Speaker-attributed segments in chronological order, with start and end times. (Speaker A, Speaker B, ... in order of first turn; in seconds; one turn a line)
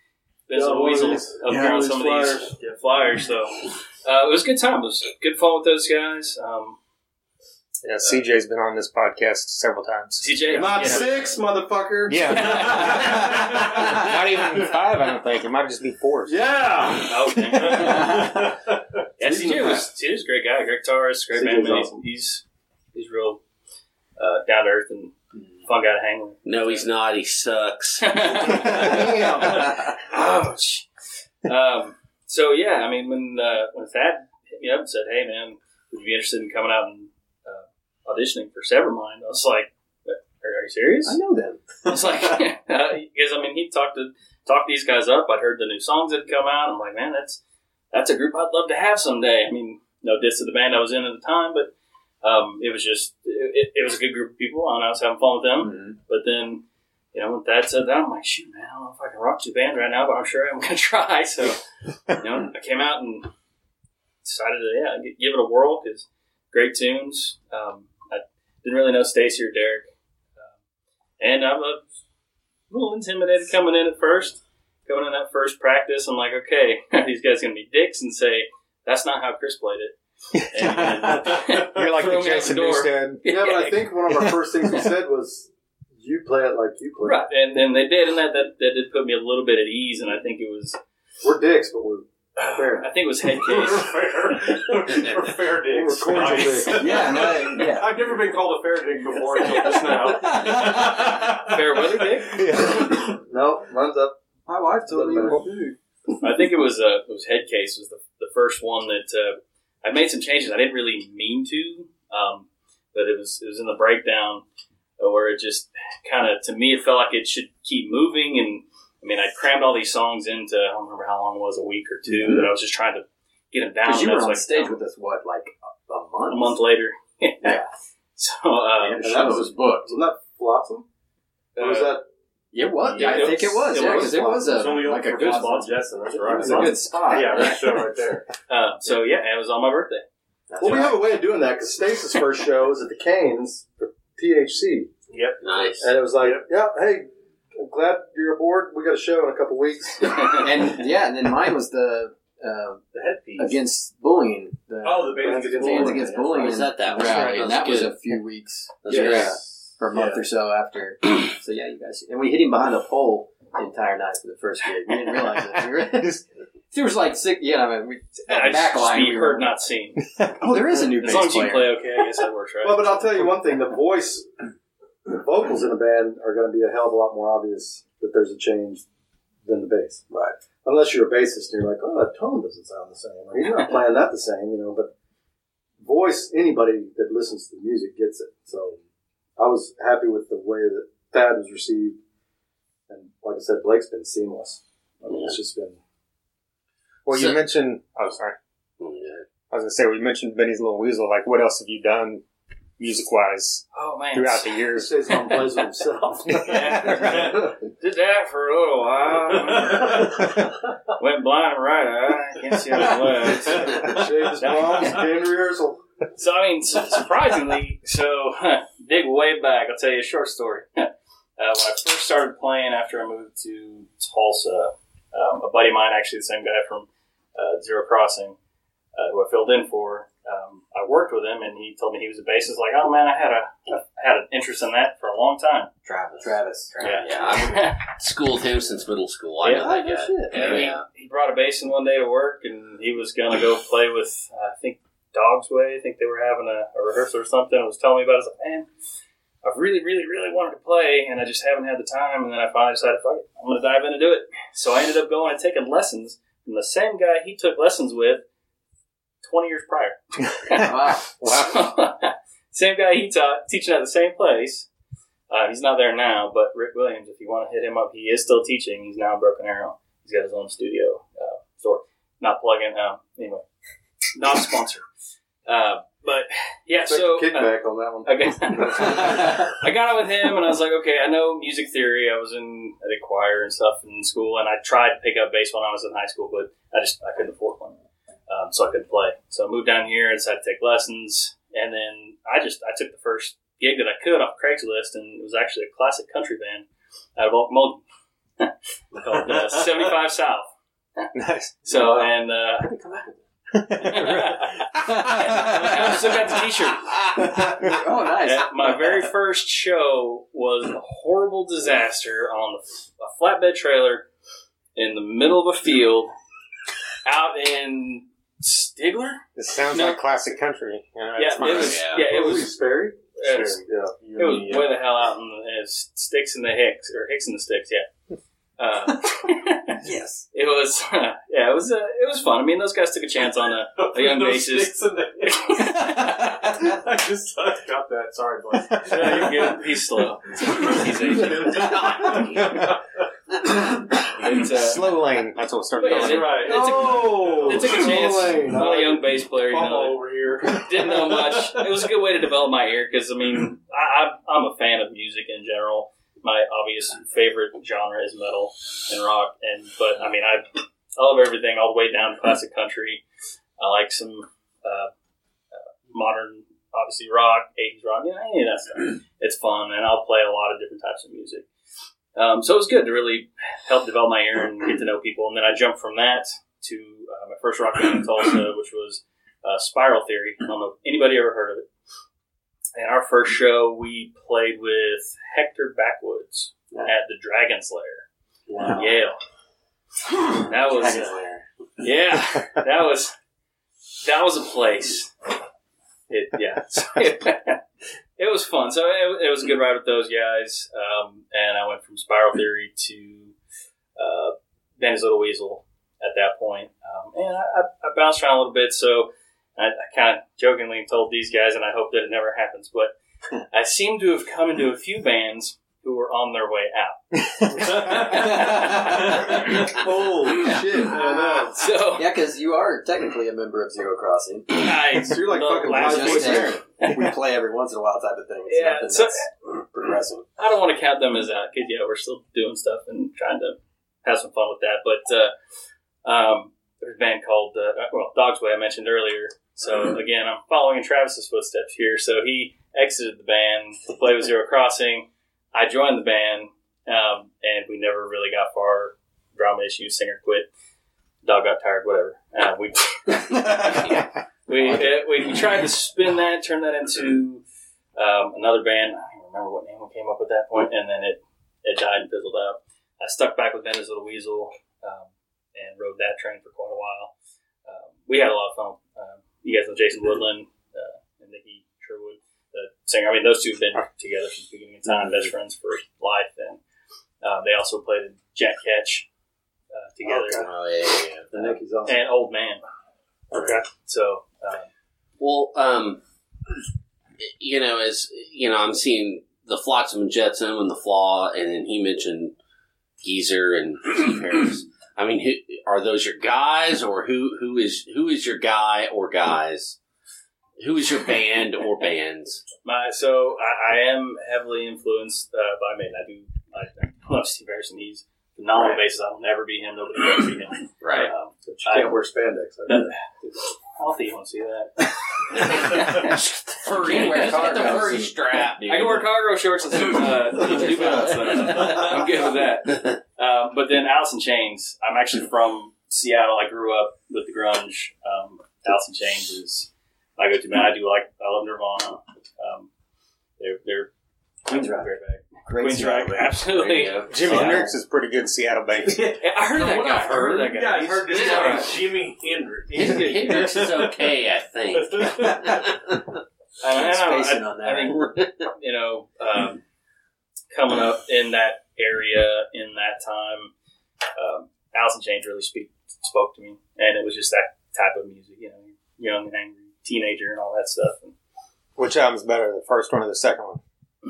Speaker A: 0.5-6.8
Speaker B: 0.5-2.5
Speaker C: 7.8-10.3
Speaker A: 10.2-11.2
Speaker B: 10.5-14.0
Speaker C: 12.1-16.4
Speaker A: 12.2-13.7
Speaker D: 12.9-13.1
Speaker B: 16.3-18.1
Speaker A: 17.0-18.3
Speaker D: 17.3-18.8
Speaker A: 19.2-23.4
Speaker B: 19.2-19.9
Speaker B: 21.3-21.9
Speaker A: 24.2-26.8
Speaker E: 26.4-28.9
Speaker A: 28.0-30.9
Speaker B: 28.6-29.8
Speaker A: 31.4-41.2
Speaker F: 41.0-42.4
Speaker A: 41.9-47.4
Speaker A: 47.9-56.6
Speaker F: 55.6-56.0
Speaker A: 57.1-63.3
Speaker A: 64.2-70.5
Speaker A: 71.2-71.8
Speaker A: 72.7-80.0
Speaker C: 80.3-83.2
Speaker A: 80.5-84.0
Speaker D: 80.8-82.0
Speaker B: 83.2-87.3
Speaker A: 87.0-90.8
Speaker B: 91.2-92.9
Speaker A: 92.7-94.0
Speaker D: 93.2-102.3
Speaker B: 95.7-97.2
Speaker F: 96.8-97.9
Speaker A: 99.1-102.5
Speaker F: 100.1-101.1
Speaker C: 102.3-102.8
Speaker B: 102.6-104.2
Speaker F: 104.5-105.7
Speaker B: 104.9-105.5
Speaker A: 106.2-114.4
Speaker A: 115.0-124.8
Speaker F: 122.1-122.5
Speaker F: 123.8-126.6
Speaker A: 126.3-127.6
Speaker F: 127.4-127.7
Speaker A: 128.2-129.2
Speaker F: 128.8-129.9
Speaker B: 129.0-130.8
Speaker D: 131.6-131.8
Speaker B: 131.6-132.0
Speaker A: 131.6-131.9
Speaker F: 132.5-137.9
Speaker E: 132.9-133.3
Speaker A: 133.0-134.4
Speaker B: 133.0-134.9
Speaker D: 133.7-138.3
Speaker B: 136.4-137.4
Speaker A: 138.5-140.0
Speaker F: 140.5-141.0
Speaker B: 140.6-144.9
Speaker A: 140.6-140.9
Speaker D: 145.1-146.4
Speaker E: 145.4-145.9
Speaker B: 145.8-150.8
Speaker F: 150.3-152.8
Speaker D: 152.9-153.6
Speaker F: 153.4-169.5
Speaker D: 154.8-156.7
Speaker B: 155.2-156.1
Speaker E: 156.4-158.0
Speaker C: 157.1-157.5
Speaker E: 158.8-159.4
Speaker D: 158.9-159.4
Speaker C: 159.1-159.3
Speaker D: 159.9-160.2
Speaker C: 165.6-166.2
Speaker A: 168.3-170.3
Speaker F: 170.2-171.8
Speaker A: 171.0-173.3
Speaker B: 172.6-174.3
Speaker B: 175.1-178.8
Speaker B: 179.4-180.0
Speaker F: 180.1-180.3
Speaker B: 180.6-184.9
Speaker B: 185.8-188.8
Speaker B: 189.4-192.0
Speaker B: 192.9-195.8
Speaker E: 195.1-195.4
Speaker C: 197.1-198.4
Speaker E: 197.1-197.4
Speaker E: 198.8-199.2
Speaker C: 199.5-202.2
Speaker C: 202.8-204.9
Speaker A: 203.7-205.4
Speaker B: 204.7-207.5
Speaker C: 206.4-207.3
Speaker A: 206.4-215.1
Speaker D: 209.6-210.1
Speaker B: 213.6-215.8
Speaker A: 216.2-228.4
Speaker A: 228.9-235.7
Speaker E: 235.8-240.8
Speaker F: 236.2-236.9
Speaker A: 236.8-237.8
Speaker A: 239.4-248.7
Speaker F: 239.6-240.7
Speaker A: 249.4-258.2
Speaker A: 259.2-264.7
Speaker F: 260.5-261.1
Speaker C: 261.2-261.5
Speaker A: 265.3-273.4
Speaker A: 274.1-274.9
Speaker A: 275.4-297.8
Speaker B: 276.9-279.3
Speaker A: 298.4-301.1
Speaker D: 299.0-299.9
Speaker C: 301.1-301.5
Speaker A: 301.6-303.1
Speaker F: 301.7-303.0
Speaker C: 303.5-305.5
Speaker A: 303.7-307.1
Speaker F: 305.1-306.0
Speaker F: 306.9-309.1
Speaker A: 308.2-314.1
Speaker A: 314.7-316.1
Speaker A: 317.0-320.0
Speaker C: 319.4-321.9
Speaker A: 321.1-322.6
Speaker E: 321.4-322.1
Speaker B: 321.9-323.0
Speaker A: 323.2-323.6
Speaker D: 323.2-324.8
Speaker B: 323.6-323.9
Speaker A: 324.1-327.9
Speaker A: 328.6-329.8
Speaker F: 329.8-330.2
Speaker A: 330.3-336.2
Speaker D: 333.7-335.9
Speaker F: 336.0-336.6
Speaker D: 336.5-342.8
Speaker A: 338.7-341.8
Speaker E: 341.4-342.6
Speaker A: 344.2-345.0
Speaker C: 344.5-346.3
Speaker A: 345.8-363.0
Speaker D: 345.8-351.8
Speaker B: 346.4-349.0
Speaker A: 363.6-364.9
Speaker A: 365.5-371.5
Speaker A: 372.1-381.7
Speaker A: 382.8-388.0
Speaker F: 388.5-389.0
Speaker A: 388.7-389.2
Speaker F: 390.2-391.4
Speaker A: 390.4-391.2
Speaker A: 391.8-393.1
Speaker A: 394.0-395.3
Speaker A: 396.1-397.6
Speaker A: 398.2-403.3
Speaker A: 403.9-412.9
Speaker A: 413.5-422.1
Speaker F: 418.0-419.2
Speaker B: 419.7-421.7
Speaker F: 422.0-424.7
Speaker A: 424.5-427.1
Speaker B: 425.0-426.6
Speaker F: 425.6-430.2
Speaker A: 428.5-429.3
Speaker A: 430.4-435.3
Speaker A: 436.0-450.5
Speaker A: 451.2-457.4
Speaker E: 453.7-455.0
Speaker A: 457.9-467.1
Speaker A: 467.6-476.6
Speaker A: 477.2-479.1
Speaker A: 479.7-480.5
Speaker B: 480.1-480.5
Speaker E: 480.4-481.6
Speaker B: 481.3-482.0
Speaker A: 481.8-482.6
Speaker E: 483.3-483.6
Speaker A: 483.5-484.7
Speaker E: 485.2-486.0
Speaker E: 487.2-492.4
Speaker E: 493.0-499.8
Speaker E: 500.6-502.4
Speaker A: 502.6-512.0
Speaker E: 510.8-511.1
Speaker B: 511.4-513.0
Speaker A: 513.7-516.2
Speaker E: 516.5-519.0
Speaker F: 516.6-518.1
Speaker A: 516.9-517.8
Speaker A: 518.6-532.7
Speaker F: 520.3-521.8
Speaker E: 522.7-522.9
Speaker A: 533.4-533.9
Speaker A: 534.5-537.7
Speaker F: 534.5-536.5
Speaker E: 536.5-537.6
Speaker C: 537.1-539.1
Speaker A: 538.9-541.8
Speaker D: 539.5-544.1
Speaker E: 541.1-541.7
Speaker E: 542.7-546.0
Speaker D: 544.7-545.8
Speaker A: 546.6-549.6
Speaker F: 546.7-548.2
Speaker A: 550.5-553.5
Speaker A: 554.1-561.1
Speaker C: 561.8-563.6